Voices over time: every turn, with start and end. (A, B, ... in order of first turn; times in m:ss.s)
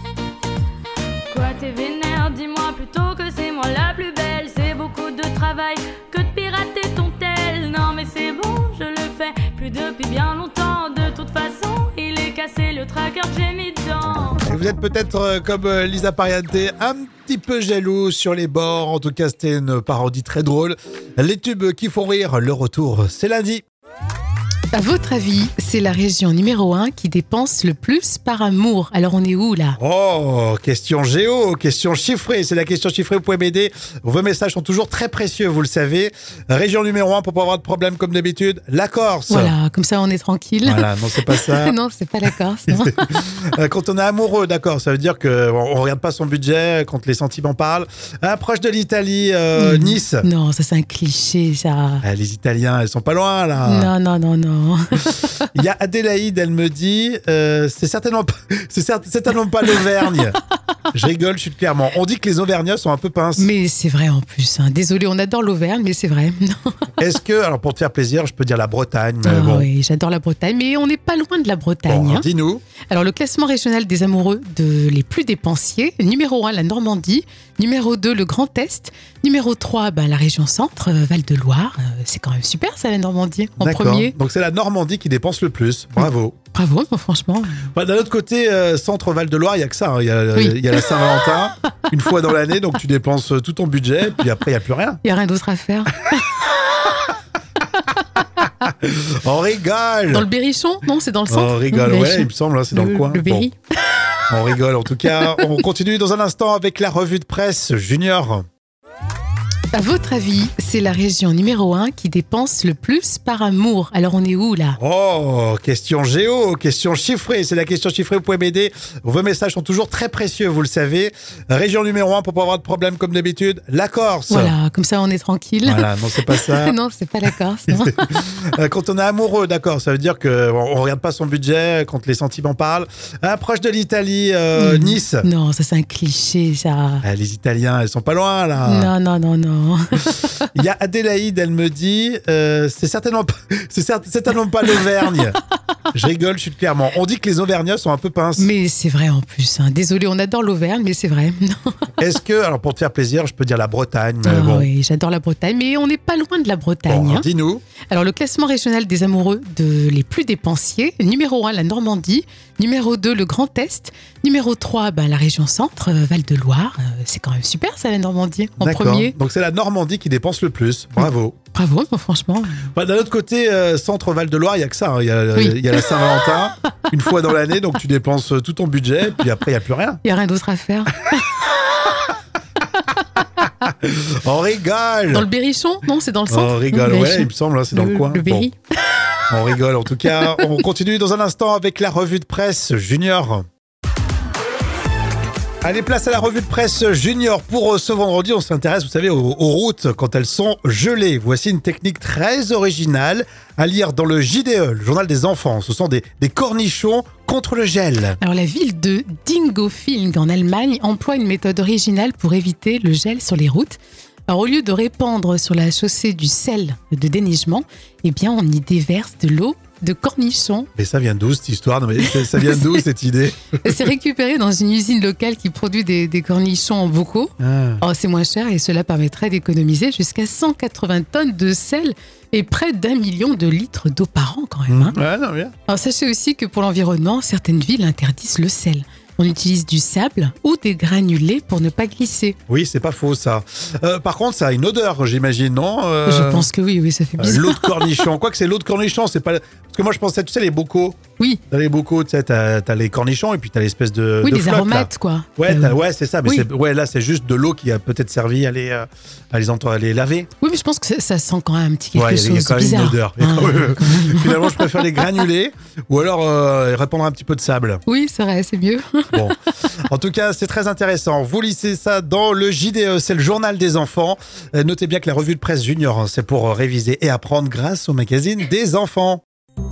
0:01.3-0:14.4 A
0:14.5-0:23.6 B
0:24.7-0:29.8 C
0:29.8-0:39.5 B
0:39.3-0:43.1 C
0:40.6-0:41.7 B
0:42.7-0:50.2 B
0:49.6-0:52.0 C
0:52.0-0:53.9 B
0:53.6-0:55.4 C
0:55.5-1:00.4 B
1:00.9-1:03.5 B
1:03.4-1:06.8 C
1:07.0-1:09.7 B
1:09.2-1:12.2 C
1:11.9-1:12.6 B
1:12.9-1:24.1 C
1:23.6-1:26.4 B
1:26.0-1:27.6 C
1:27.7-1:35.0 B
1:30.4-1:30.9 C
1:35.0-1:36.9 C
1:38.7-1:40.3 B
1:40.1-1:43.5 C
1:41.3-1:43.5 B
1:44.3-1:48.4 B
1:45.2-1:45.5 C
1:49.7-1:54.8 C
1:54.8-2:04.5 B
2:04.3-2:08.1 C
2:05.6-2:06.8 B
2:07.7-2:15.3 B
2:14.6-2:17.0 C
2:17.0-2:18.9 B
2:18.6-2:20.5 C
2:20.5-2:25.4 B
2:25.9-2:28.5 B
2:28.4-2:31.8 C
2:32.0-2:34.7 B
2:34.2-2:37.3 C
2:36.9-2:37.6 B
2:37.9-2:49.1 C
2:48.6-2:51.4 B
2:51.0-2:52.7 C
2:52.7-3:00.0 B
2:55.4-2:56.0 C
3:00.0-3:01.8 C
3:03.6-3:05.3 B
3:05.1-3:08.6 C
3:06.3-3:08.5 B
3:09.3-3:13.4 B
3:15.6-3:28.2 B
3:28.2-3:40.7 C
3:40.8-3:43.9 B
3:42.1-3:42.7 C
3:43.6-3:55.0 C
3:47.4-3:47.8 B
3:54.7-3:55.5 B
3:55.7-4:02.4 C
4:02.5-4:06.5 B
4:06.0-4:08.0 C
4:07.2-4:20.3 B
4:14.2-4:16.4 C
4:20.4-4:25.0 C
4:21.9-4:27.8 B
4:27.9-4:29.2 C
4:29.1-4:39.2 B